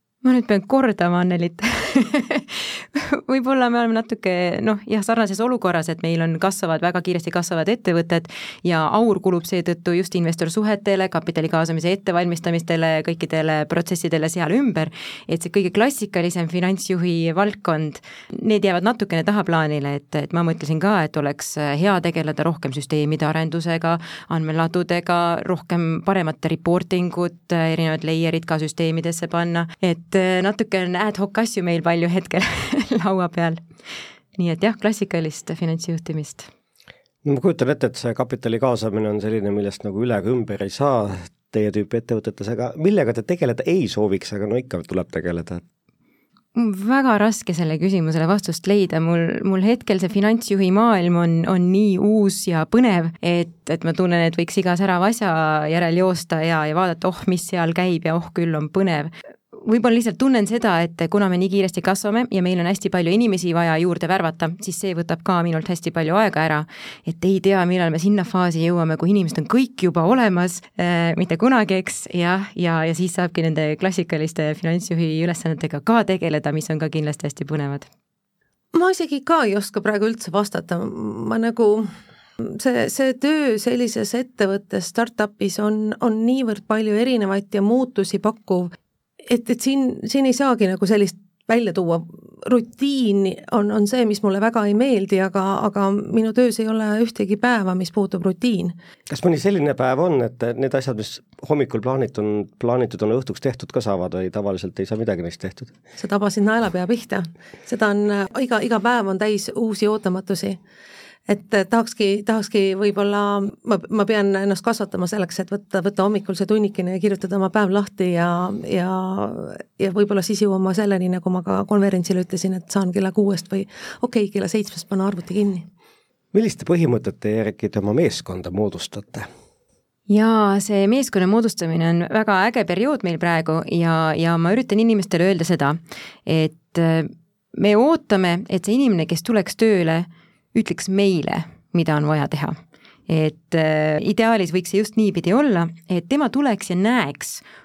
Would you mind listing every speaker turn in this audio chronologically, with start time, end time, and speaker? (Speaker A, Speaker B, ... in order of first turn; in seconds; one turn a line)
Speaker A: 0.2-33.6
Speaker A: 34.4-36.5
Speaker B: 37.2-45.6
Speaker A: 46.5-77.9
Speaker C: 78.7-88.7
Speaker C: 89.3-98.7
Speaker B: 99.1-105.7
Speaker C: 106.0-110.6
Speaker C: 111.3-125.7
Speaker B: 126.3-129.3
Speaker A: 130.1-142.6
Speaker A: 143.1-147.4